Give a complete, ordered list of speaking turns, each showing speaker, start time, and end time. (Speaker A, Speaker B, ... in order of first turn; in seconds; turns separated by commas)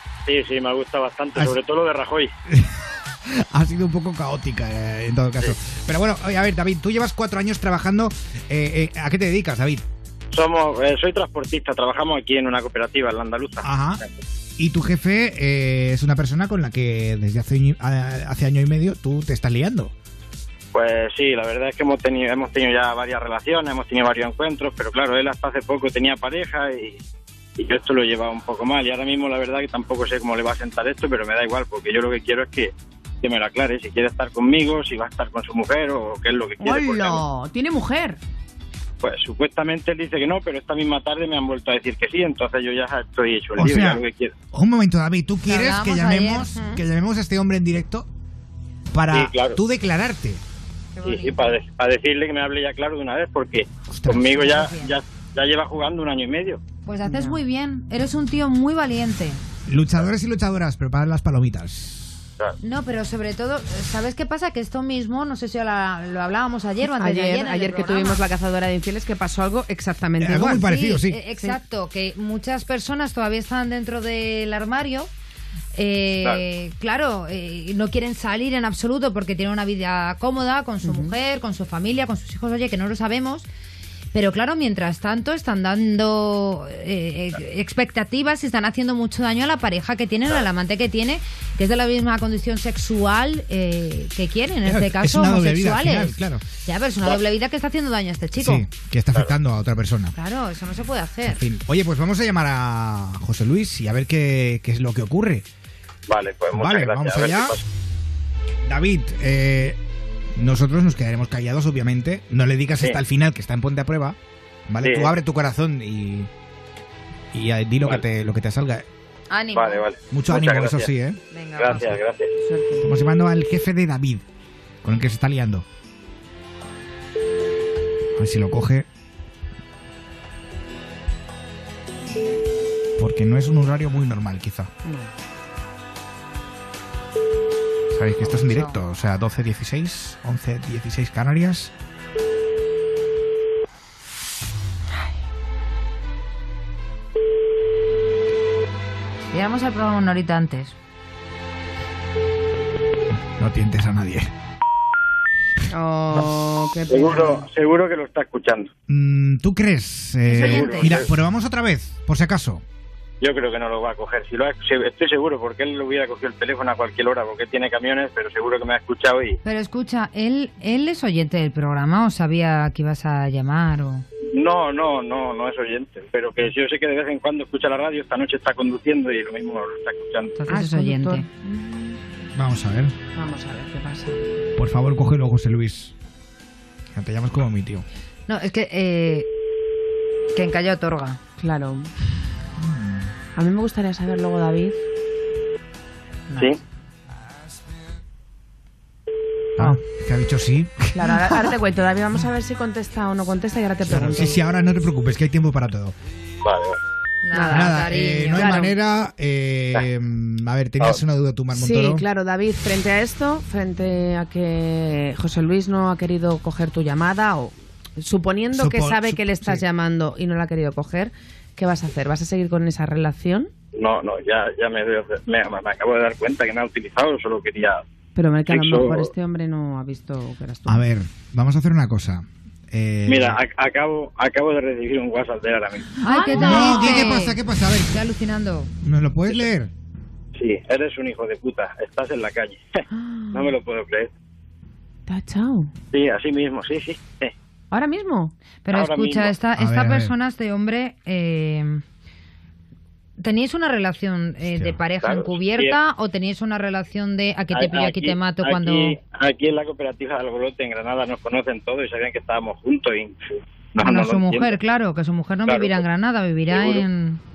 Speaker A: 0.2-2.3, Speaker B: 2.5-9.8, Speaker A: 10.3-14.1, Speaker B: 13.6-14.0, Speaker B: 14.6-19.9, Speaker A: 20.7-27.0, Speaker A: 27.6-37.2, Speaker C: 36.6-38.2, Speaker A: 39.0-44.3, Speaker B: 43.5-48.1, Speaker D: 45.4-46.5, Speaker B: 48.9-50.4, Speaker A: 49.1-49.6, Speaker D: 51.0-51.4, Speaker A: 51.0-56.6, Speaker B: 53.9-54.3, Speaker D: 54.2-54.9, Speaker D: 56.8-59.4, Speaker C: 57.0-57.4, Speaker B: 59.6-62.2, Speaker D: 62.6-68.2, Speaker C: 66.8-70.7, Speaker B: 70.2-71.2, Speaker D: 70.5-75.1, Speaker D: 75.7-83.5, Speaker C: 80.8-81.1, Speaker D: 84.1-98.7, Speaker B: 94.6-96.4, Speaker B: 98.3-100.2, Speaker D: 100.1-101.4, Speaker B: 101.2-105.4, Speaker A: 106.1-107.6, Speaker B: 106.5-107.6, Speaker B: 108.6-109.8, Speaker B: 110.3-114.2, Speaker B: 114.7-116.3, Speaker A: 114.8-115.1, Speaker B: 117.3-118.8, Speaker D: 119.3-119.8, Speaker A: 119.5-120.9, Speaker B: 120.1-121.2, Speaker D: 121.3-121.8, Speaker A: 121.5-122.3, Speaker C: 122.4-122.9, Speaker B: 122.8-124.2, Speaker B: 124.8-125.6, Speaker B: 128.2-128.8, Speaker B: 133.0-134.7, Speaker C: 134.8-135.1, Speaker B: 137.9-141.7, Speaker D: 138.2-138.8, Speaker D: 149.3-150.8, Speaker B: 153.3-154.3, Speaker C: 155.7-157.4, Speaker A: 156.9-158.7, Speaker B: 158.9-162.6, Speaker D: 160.2-161.0, Speaker A: 160.3-161.1, Speaker A: 163.2-169.4, Speaker D: 169.4-174.0, Speaker A: 174.3-180.3, Speaker D: 180.4-181.2, Speaker C: 180.5-182.0, Speaker B: 182.3-182.9, Speaker C: 183.1-184.4, Speaker B: 184.6-185.9, Speaker B: 186.9-187.8, Speaker D: 188.3-189.3, Speaker D: 190.3-191.2, Speaker C: 191.4-191.9, Speaker B: 192.6-193.1, Speaker C: 193.3-194.8, Speaker B: 199.6-201.5, Speaker C: 200.9-204.4, Speaker B: 203.8-205.9, Speaker A: 206.4-206.8, Speaker D: 207.2-208.6, Speaker C: 207.3-208.7, Speaker B: 207.5-212.0, Speaker C: 211.5-223.5, Speaker B: 218.5-219.6, Speaker A: 223.8-227.8, Speaker C: 228.1-230.8, Speaker A: 228.4-229.1, Speaker B: 230.7-233.4, Speaker A: 233.1-236.0, Speaker C: 236.0-237.2, Speaker D: 236.0-238.7, Speaker B: 236.3-237.9, Speaker B: 238.8-239.7, Speaker A: 240.3-244.1, Speaker C: 243.0-243.4, Speaker C: 245.1-245.7, Speaker A: 245.9-247.3, Speaker C: 247.7-248.3, Speaker D: 248.6-251.8, Speaker A: 248.7-249.3, Speaker B: 249.6-250.1, Speaker D: 253.2-259.0, Speaker B: 254.4-254.8, Speaker A: 255.0-255.8, Speaker A: 257.5-264.6, Speaker D: 263.8-267.2, Speaker A: 265.5-265.8, Speaker A: 266.5-266.9